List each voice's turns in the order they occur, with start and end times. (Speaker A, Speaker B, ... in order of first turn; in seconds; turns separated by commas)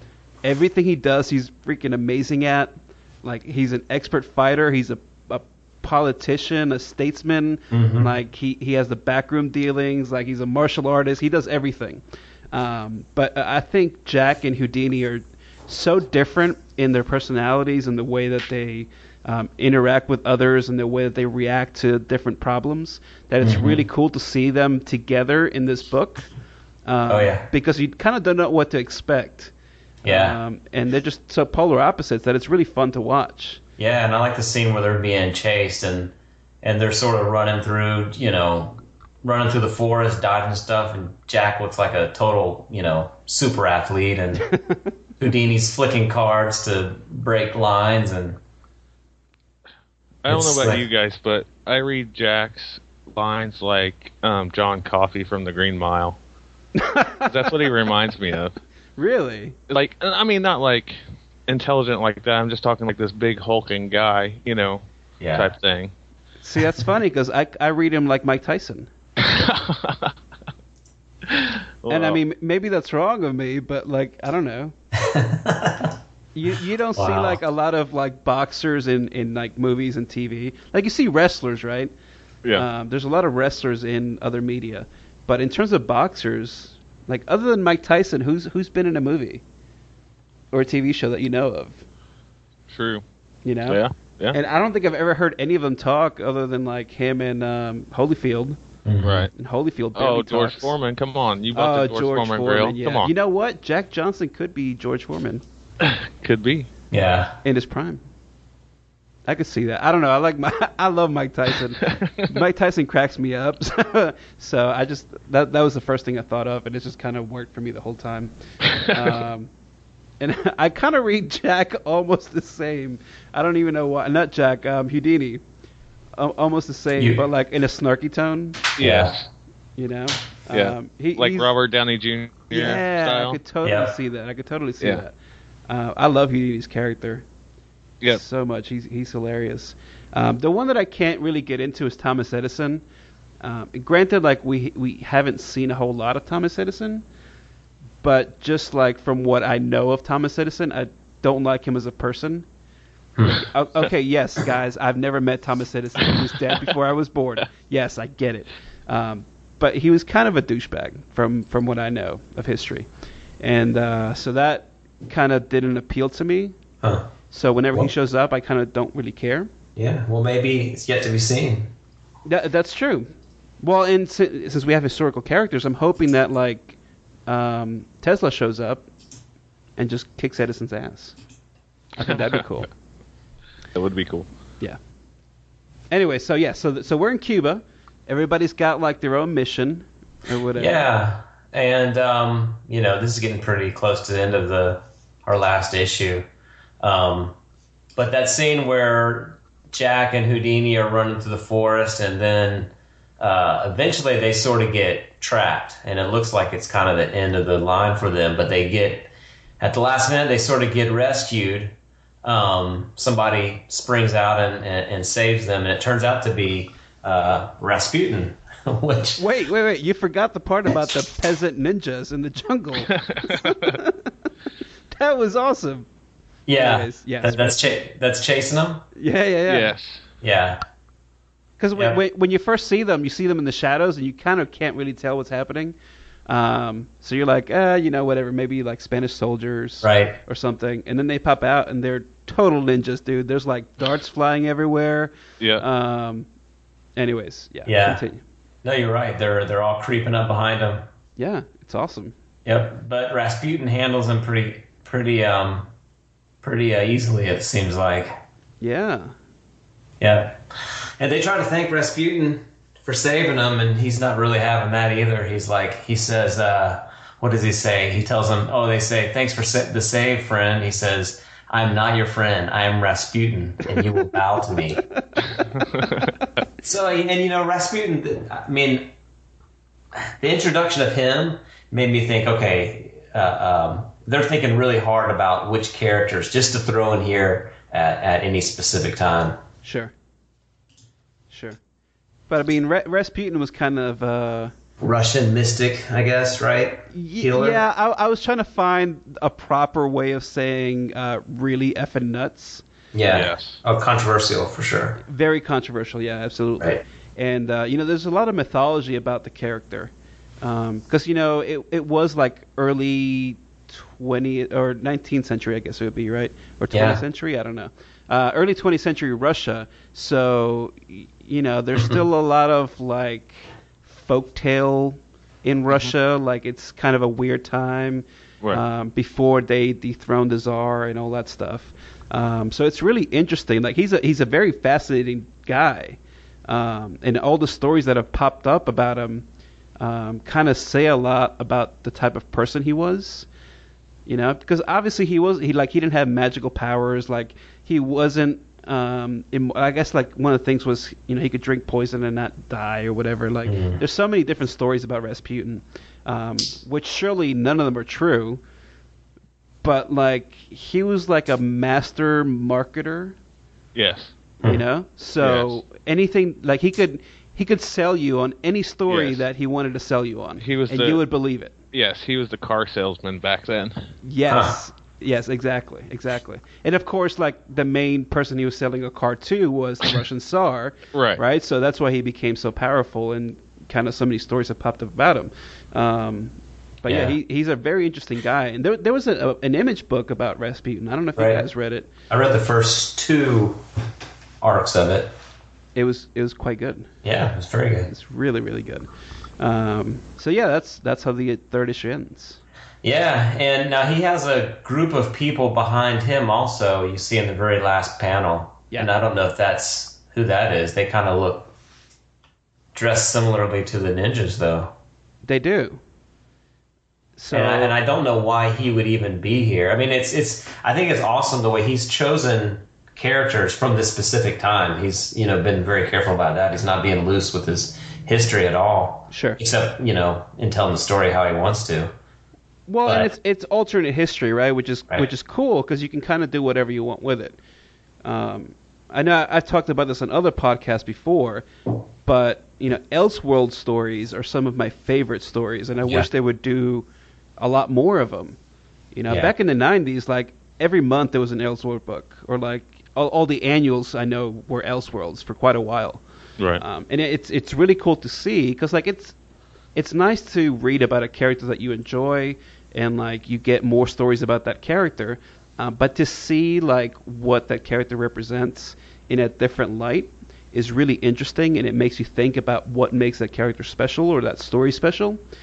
Speaker A: 0.4-26.3, Speaker B: 7.7-8.1, Speaker B: 23.4-23.8, Speaker A: 26.9-29.5, Speaker B: 27.1-27.5, Speaker B: 30.0-30.4, Speaker A: 30.0-33.6, Speaker B: 33.8-44.5, Speaker B: 45.2-48.4, Speaker C: 50.2-56.2, Speaker B: 50.3-50.8, Speaker A: 56.7-57.6, Speaker C: 57.3-58.5, Speaker A: 59.0-59.5, Speaker C: 59.7-64.8, Speaker B: 65.2-65.5, Speaker C: 65.3-65.9, Speaker A: 66.4-68.9, Speaker C: 69.2-70.1, Speaker C: 71.3-72.2, Speaker A: 71.9-74.7, Speaker B: 74.9-75.9, Speaker A: 76.3-81.9, Speaker B: 76.9-77.4, Speaker A: 82.5-89.4, Speaker A: 90.5-91.8, Speaker C: 92.7-93.0, Speaker A: 93.4-93.8, Speaker C: 93.7-94.4, Speaker A: 94.3-98.6, Speaker B: 98.8-99.3, Speaker C: 99.0-99.3, Speaker A: 99.3-100.7, Speaker C: 99.9-103.1, Speaker A: 101.5-105.4, Speaker C: 105.8-106.7, Speaker B: 106.9-107.4, Speaker A: 107.4-108.0, Speaker A: 109.3-119.5, Speaker C: 111.8-112.2, Speaker A: 120.2-125.4, Speaker A: 126.2-128.6, Speaker B: 127.0-127.2, Speaker C: 128.8-129.3, Speaker B: 128.8-129.2, Speaker A: 129.8-131.5, Speaker C: 130.5-133.4, Speaker A: 132.5-135.1, Speaker B: 133.6-133.9, Speaker A: 135.7-137.2, Speaker A: 138.1-142.8, Speaker A: 143.4-147.0, Speaker A: 148.0-152.4, Speaker B: 153.2-153.4, Speaker A: 153.3-162.9, Speaker A: 163.4-166.6, Speaker B: 166.8-167.1, Speaker A: 167.3-169.5, Speaker B: 169.8-171.7, Speaker A: 172.2-178.8, Speaker A: 179.8-181.2, Speaker A: 182.0-182.7, Speaker C: 182.1-182.3, Speaker C: 183.7-184.3, Speaker A: 185.9-190.8, Speaker B: 190.6-196.3, Speaker B: 196.8-197.3, Speaker B: 197.9-219.2, Speaker A: 219.2-224.1, Speaker C: 222.9-223.7, Speaker A: 224.9-225.8, Speaker B: 226.5-228.8, Speaker A: 226.5-227.6, Speaker A: 228.9-229.7, Speaker C: 229.5-230.0, Speaker B: 230.2-230.6, Speaker A: 231.6-235.8, Speaker A: 236.3-246.3, Speaker B: 239.8-240.2, Speaker A: 246.9-248.2, Speaker B: 247.6-248.0, Speaker B: 248.6-250.9, Speaker A: 251.2-252.1, Speaker B: 252.4-255.7, Speaker B: 256.4-258.1, Speaker A: 258.6-259.1, Speaker B: 260.0-260.4, Speaker B: 261.0-274.8, Speaker B: 276.6-278.9, Speaker B: 279.9-289.4, Speaker A: 289.6-289.9, Speaker A: 291.3-291.6, Speaker A: 292.3-294.5, Speaker B: 294.8-297.6, Speaker A: 296.9-302.6, Speaker B: 302.9-305.0, Speaker C: 303.1-303.6, Speaker A: 305.0-339.2, Speaker B: 316.7-317.0, Speaker A: 339.8-343.3, Speaker A: 344.1-358.4, Speaker B: 353.4-353.8, Speaker A: 359.6-363.1, Speaker C: 363.7-364.1, Speaker A: 364.4-371.5, Speaker C: 365.2-365.6, Speaker C: 368.9-369.2, Speaker C: 370.4-371.0, Speaker C: 371.7-373.8, Speaker A: 374.0-391.9, Speaker B: 374.3-374.6, Speaker C: 380.9-381.2, Speaker B: 386.9-387.1, Speaker B: 391.1-391.4, Speaker B: 392.1-393.6, Speaker B: 394.4-395.1, Speaker A: 395.7-396.9, Speaker B: 397.0-397.9, Speaker A: 397.9-402.4, Speaker B: 402.8-411.5, Speaker B: 412.7-414.7, Speaker A: 415.2-415.8, Speaker A: 417.2-417.7, Speaker B: 417.3-431.9, Speaker A: 429.1-429.4, Speaker A: 432.7-437.4, Speaker A: 438.0-441.4, Speaker A: 442.0-446.9, Speaker A: 447.4-448.4, Speaker A: 448.9-456.0, Speaker A: 456.6-459.1, Speaker A: 459.7-475.2